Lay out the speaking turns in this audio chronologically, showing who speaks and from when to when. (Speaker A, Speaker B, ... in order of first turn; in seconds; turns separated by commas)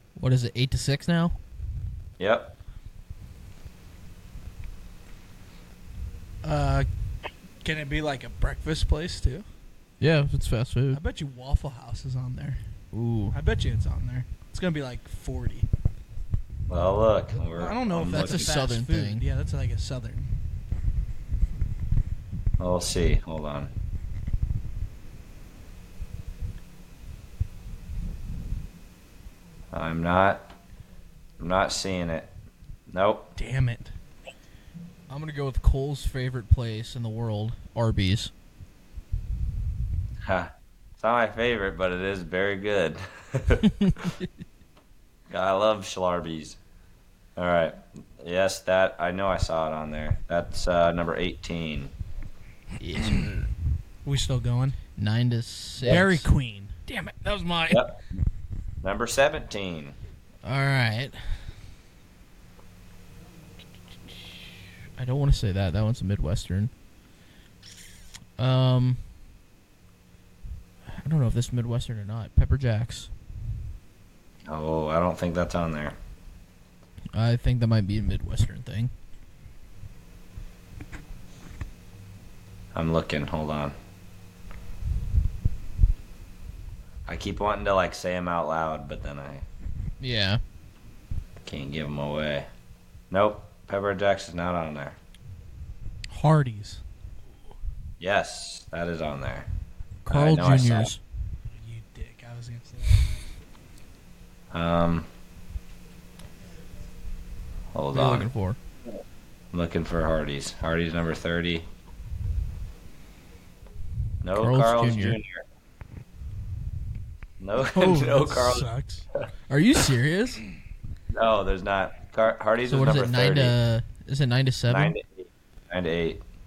Speaker A: 0.2-1.4, Speaker B: 2.2-2.5, Speaker C: 6.4-6.9, Speaker C: 7.6-9.4, Speaker A: 10.0-11.0, Speaker C: 10.9-12.6, Speaker A: 12.9-13.4, Speaker C: 13.3-15.7, Speaker B: 16.7-18.5, Speaker C: 17.5-20.3, Speaker A: 18.1-19.2, Speaker B: 22.6-23.7, Speaker B: 29.7-30.5, Speaker B: 31.4-32.3, Speaker B: 32.9-33.3, Speaker C: 33.4-33.9, Speaker A: 35.1-38.3, Speaker B: 40.2-44.1, Speaker B: 45.3-46.6, Speaker B: 47.4-51.9, Speaker A: 52.8-53.5, Speaker C: 54.0-54.8, Speaker A: 55.0-56.2, Speaker C: 55.9-56.7, Speaker A: 56.9-57.9, Speaker B: 57.7-58.0, Speaker B: 58.8-60.0, Speaker A: 60.4-61.4, Speaker A: 65.0-66.7, Speaker A: 68.4-69.0, Speaker A: 71.0-73.1, Speaker B: 74.5-76.0, Speaker A: 77.1-78.9, Speaker B: 82.7-83.7, Speaker B: 87.0-89.4, Speaker A: 90.0-90.4, Speaker B: 91.4-92.5, Speaker B: 93.1-95.0, Speaker C: 96.1-96.8, Speaker B: 98.0-99.5, Speaker A: 100.0-101.0, Speaker B: 100.1-100.9, Speaker C: 101.5-103.3, Speaker B: 104.5-105.1, Speaker B: 107.7-108.3, Speaker A: 107.9-108.6, Speaker B: 109.5-111.7, Speaker B: 114.2-115.4, Speaker A: 114.3-115.2, Speaker B: 117.4-118.7, Speaker C: 117.7-119.1, Speaker A: 119.5-120.4, Speaker B: 121.1-123.6, Speaker A: 122.7-124.9, Speaker B: 124.7-126.2